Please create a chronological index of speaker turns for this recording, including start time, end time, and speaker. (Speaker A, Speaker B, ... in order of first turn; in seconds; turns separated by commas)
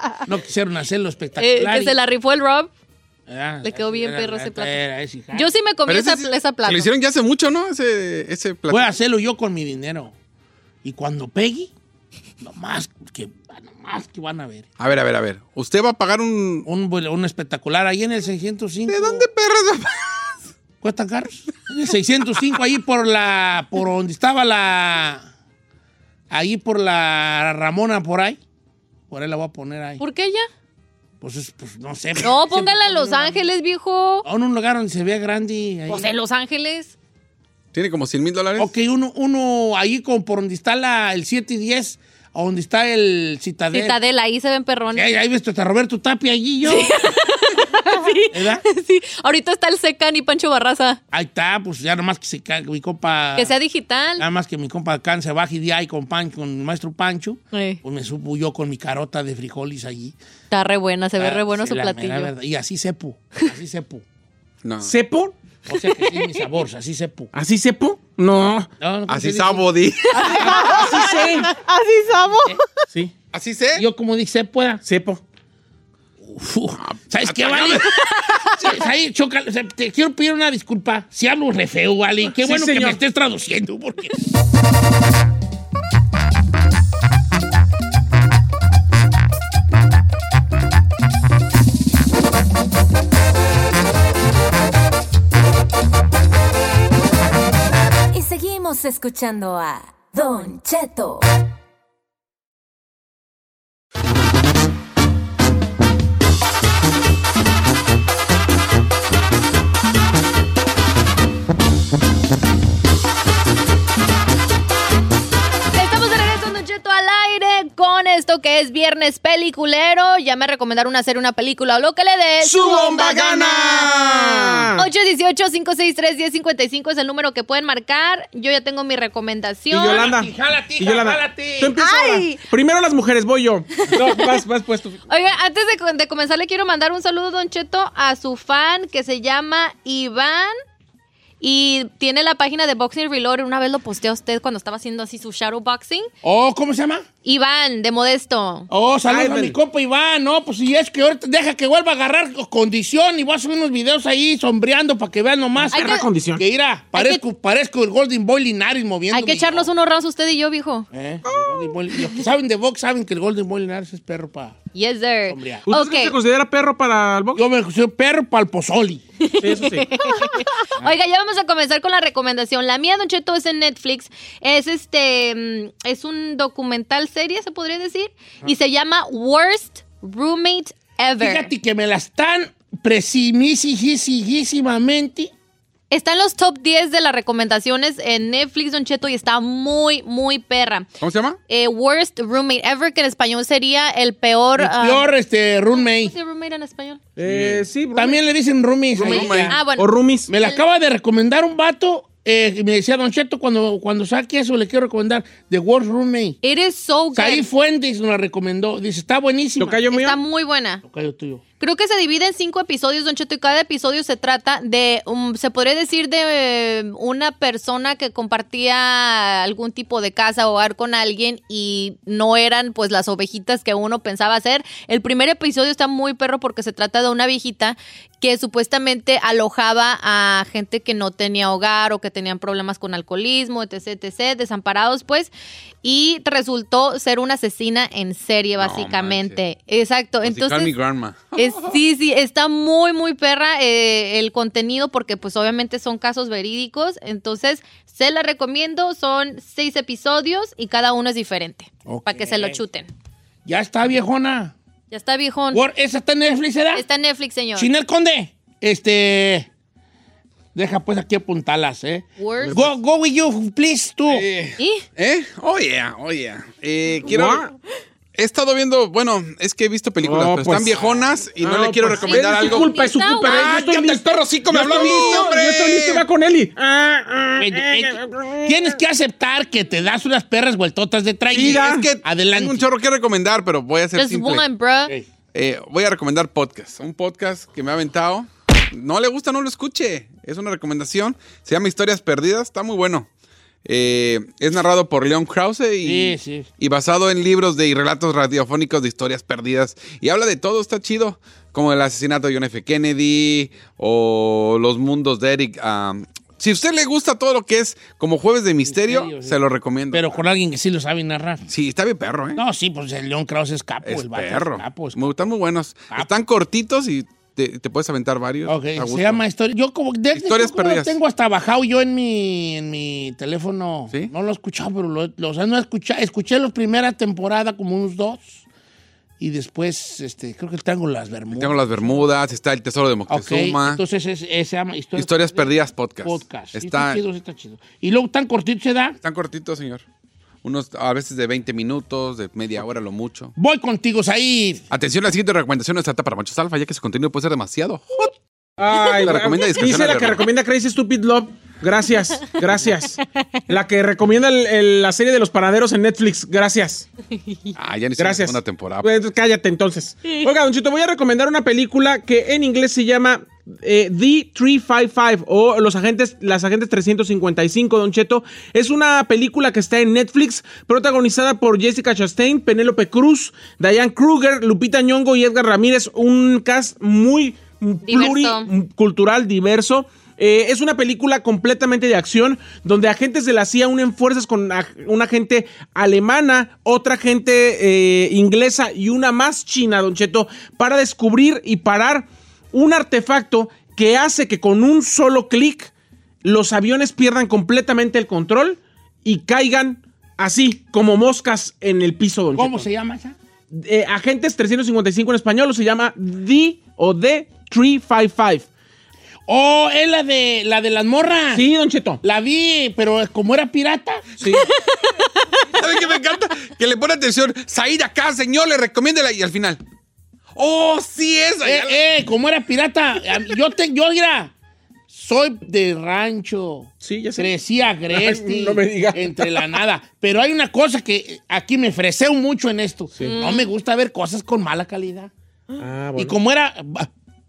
Speaker A: 0.2-1.9, Speaker B: 1.4-2.7, Speaker A: 3.3-5.5, Speaker B: 3.6-4.8, Speaker B: 5.3-6.9, Speaker C: 5.8-8.9, Speaker A: 8.7-10.1, Speaker A: 10.8-11.7, Speaker A: 12.4-14.7, Speaker C: 14.8-16.7, Speaker A: 16.6-19.3, Speaker C: 18.9-20.4, Speaker A: 20.8-25.3, Speaker A: 26.3-28.4, Speaker A: 29.1-30.0, Speaker B: 30.0-30.4, Speaker A: 31.2-33.4, Speaker B: 32.2-34.2, Speaker A: 34.2-36.1, Speaker B: 35.9-36.9, Speaker C: 37.7-38.7, Speaker A: 38.6-44.0, Speaker B: 43.7-45.1, Speaker A: 44.9-46.9, Speaker B: 46.6-51.0, Speaker A: 48.3-48.6, Speaker A: 51.1-53.5, Speaker B: 53.4-54.2, Speaker A: 54.2-60.1, Speaker B: 57.5-57.8, Speaker B: 60.5-62.3, Speaker A: 61.2-64.0, Speaker C: 64.6-64.9, Speaker D: 64.8-65.3, Speaker A: 65.7-67.3, Speaker D: 67.3-68.7, Speaker A: 68.8-69.7, Speaker C: 69.1-71.0, Speaker E: 70.2-72.6, Speaker A: 70.3-71.0, Speaker D: 70.7-71.5, Speaker C: 73.3-73.8, Speaker A: 73.7-74.8, Speaker D: 74.8-75.2, Speaker A: 76.2-78.0, Speaker C: 76.8-78.8, Speaker A: 78.5-84.2, Speaker D: 82.3-83.0, Speaker F: 98.1-101.3, Speaker B: 115.7-123.9, Speaker C: 122.4-124.7, Speaker D: 122.7-124.8, Speaker B: 124.8-130.1, Speaker A: 129.7-131.7, Speaker D: 129.7-135.0, Speaker E: 131.8-132.3, Speaker B: 131.8-132.2, Speaker B: 133.8-134.3, Speaker B: 135.1-140.5, Speaker B: 141.4-146.1, Speaker A: 146.2-147.1, Speaker B: 147.2-148.7, Speaker A: 148.7-159.7, Speaker D: 149.1-149.6, Speaker D: 155.6-156.4, Speaker B: 155.7-156.1, Speaker B: 156.9-157.2, Speaker B: 159.1-160.9, Speaker A: 160.9-164.6, Speaker D: 161.2-161.7, Speaker B: 164.7-166.1, Speaker A: 165.3-165.7, Speaker D: 165.7-167.4, Speaker A: 167.3-169.0, Speaker B: 169.2-181.5, Speaker D: 169.4-169.9, Speaker A: 181.2-185.3, Speaker B: 185.9-190.9, Speaker C: 191.0-191.4, Speaker B: 191.5-195.1, Speaker A: 194.6-196.1, Speaker B: 195.7-197.0, Speaker D: 197.2-198.2, Speaker C: 197.2-197.7, Speaker A: 197.9-199.6, Speaker C: 198.9-199.6, Speaker B: 199.0-200.6, Speaker D: 199.8-200.3, Speaker A: 200.3-206.4, Speaker B: 206.4-207.4, Speaker A: 207.1-209.8, Speaker D: 209.6-210.2, Speaker B: 209.9-210.8, Speaker A: 210.8-211.4, Speaker B: 211.6-235.3, Speaker B: 235.8-240.7, Speaker C: 238.6-239.4, Speaker C: 240.2-241.8, Speaker B: 241.3-252.9, Speaker A: 251.8-252.6, Speaker A: 253.4-254.5, Speaker B: 254.9-255.6, Speaker A: 255.5-256.9, Speaker B: 256.7-257.7, Speaker A: 257.5-259.5, Speaker A: 260.5-264.3, Speaker B: 262.2-262.7, Speaker C: 264.1-267.5, Speaker B: 264.6-264.8, Speaker D: 267.1-267.5, Speaker C: 268.1-272.7, Speaker D: 270.0-278.8, Speaker B: 272.0-273.5, Speaker A: 273.2-274.0, Speaker C: 273.2-276.0, Speaker A: 277.4-282.7, Speaker D: 281.3-281.9, Speaker C: 281.3-284.4, Speaker B: 283.9-284.9, Speaker C: 285.3-293.1, Speaker C: 293.6-310.1, Speaker A: 295.8-296.5, Speaker A: 308.6-309.4, Speaker A: 309.9-311.4, Speaker C: 311.5-312.4, Speaker A: 312.3-315.1, Speaker C: 313.8-319.2, Speaker A: 318.4-328.4, Speaker C: 320.1-320.9, Speaker A: 329.2-332.1, Speaker C: 331.3-333.8, Speaker A: 333.1-339.0, Speaker C: 334.9-337.0, Speaker C: 339.0-339.8, Speaker C: 340.4-343.3, Speaker A: 343.4-344.6, Speaker C: 344.7-348.1, Speaker D: 348.6-356.9, Speaker C: 348.6-350.2, Speaker C: 357.6-358.9, Speaker D: 358.0-395.7, Speaker B: 377.8-378.5, Speaker D: 396.2-402.7, Speaker A: 402.3-403.1, Speaker D: 403.5-408.5, Speaker A: 409.3-411.5, Speaker D: 411.3-412.0, Speaker A: 412.0-414.1, Speaker D: 414.2-414.5, Speaker C: 415.4-419.6, Speaker C: 420.3-421.8, Speaker A: 421.4-424.3, Speaker A: 424.9-435.1, Speaker D: 426.8-427.3, Speaker D: 427.9-429.6, Speaker B: 433.0-433.5, Speaker D: 435.6-436.2, Speaker A: 436.0-436.9